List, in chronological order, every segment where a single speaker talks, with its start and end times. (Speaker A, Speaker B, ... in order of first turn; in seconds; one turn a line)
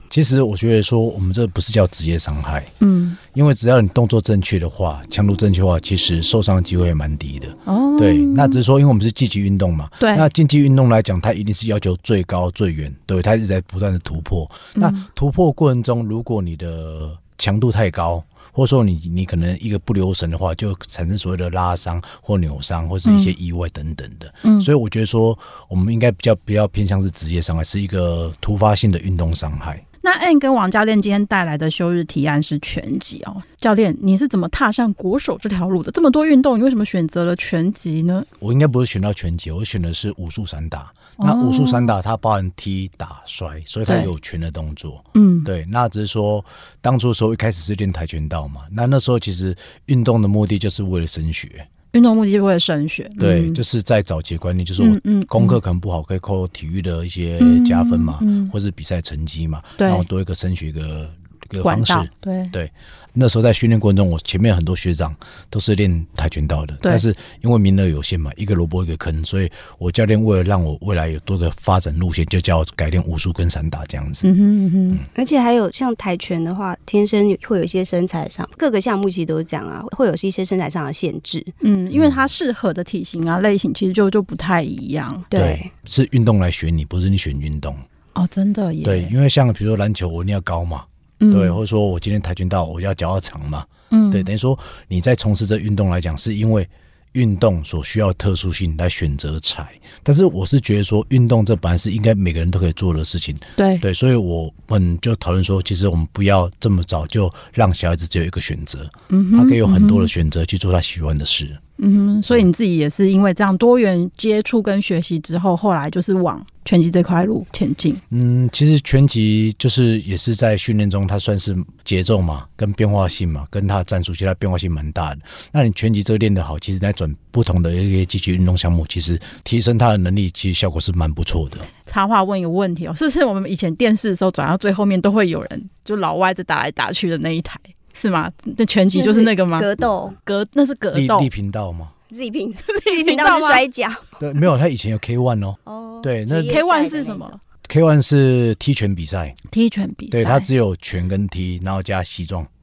Speaker A: 0.1-2.7
Speaker B: 2.8-3.2
Speaker A: 3.3-29.8
Speaker B: 7.7-8.6
Speaker B: 10.0-10.3
Speaker B: 14.7-15.0
Speaker B: 23.1-23.3
Speaker B: 24.4-24.7
Speaker B: 30.0-38.3
Speaker A: 38.4-51.7
Speaker B: 41.2-41.9
Speaker B: 45.1-45.5
Speaker B: 51.9-53.6
Speaker A: 53.2-74.3
Speaker B: 54.8-55.6
Speaker B: 57.4-58.5
Speaker B: 59.8-60.0
Speaker B: 61.6-62.5
Speaker B: 74.2-75.0
Speaker C: 75.1-81.5
Speaker B: 81.6-85.3
Speaker A: 81.9-82.2
Speaker C: 85.3-85.7
Speaker A: 85.3-87.8
Speaker B: 88.2-89.1
Speaker A: 88.8-111.6
Speaker B: 91.2-91.6
Speaker B: 93.9-94.3
Speaker B: 103.6-103.8
Speaker B: 109.1-110.1
Speaker B: 111.8-118.0
Speaker A: 118.1-131.7
Speaker B: 131.8-139.7
Speaker C: 138.9-140.2
Speaker B: 140.2-141.3
Speaker A: 140.9-141.9
Speaker C: 142.1-144.0
Speaker B: 142.7-143.6
Speaker A: 144.2-146.6
Speaker C: 145.7-147.3
Speaker B: 146.5-147.4
Speaker A: 147.7-149.4
Speaker B: 149.5-150.5
Speaker A: 150.1-152.5